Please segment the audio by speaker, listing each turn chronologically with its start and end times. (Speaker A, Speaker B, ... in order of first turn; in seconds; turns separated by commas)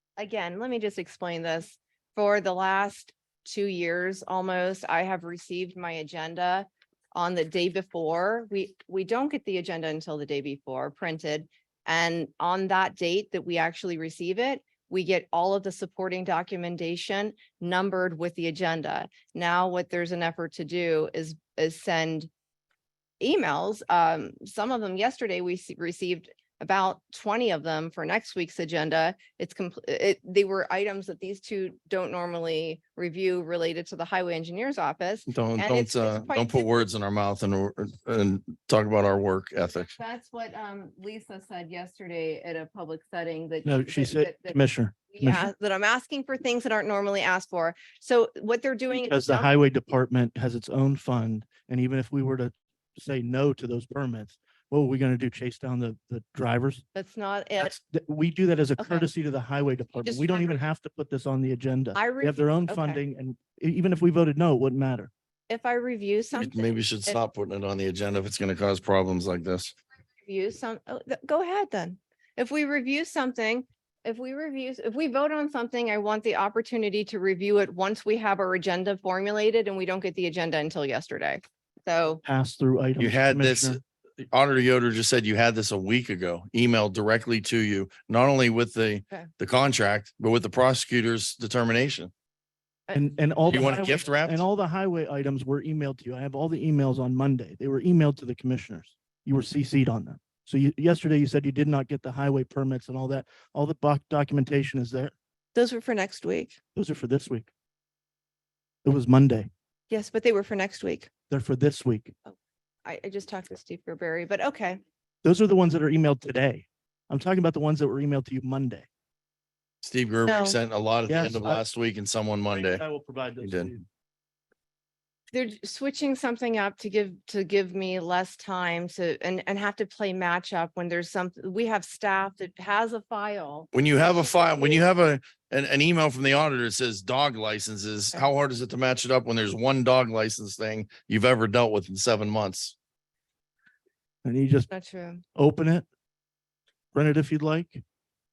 Speaker A: 0.2-22.3, Speaker A: 23.2-36.8, Speaker B: 35.3-39.9, Speaker A: 39.9-44.6, Speaker C: 43.6-45.5, Speaker A: 45.1-49.5, Speaker C: 48.9-56.8, Speaker A: 56.9-57.7, Speaker C: 57.6-65.1, Speaker A: 58.8-59.1, Speaker A: 60.0-60.6, Speaker A: 61.9-63.0, Speaker A: 65.5-67.2, Speaker B: 66.3-69.7, Speaker A: 70.2-82.2, Speaker C: 82.2-83.8, Speaker B: 83.0-92.1, Speaker C: 92.9-105.1, Speaker B: 93.5-94.4, Speaker A: 105.5-106.6, Speaker C: 106.7-107.5, Speaker C: 108.8-109.5, Speaker A: 109.9-111.1, Speaker C: 111.3-112.1, Speaker A: 112.2-114.8, Speaker C: 115.2-118.9, Speaker B: 119.8-122.8, Speaker A: 120.2-120.6, Speaker C: 121.1-121.6, Speaker C: 122.5-123.8, Speaker B: 123.4-123.7, Speaker A: 125.3-133.7, Speaker B: 133.7-142.7, Speaker C: 144.2-144.7, Speaker A: 144.7-145.2, Speaker C: 145.3-145.8, Speaker C: 146.9-147.8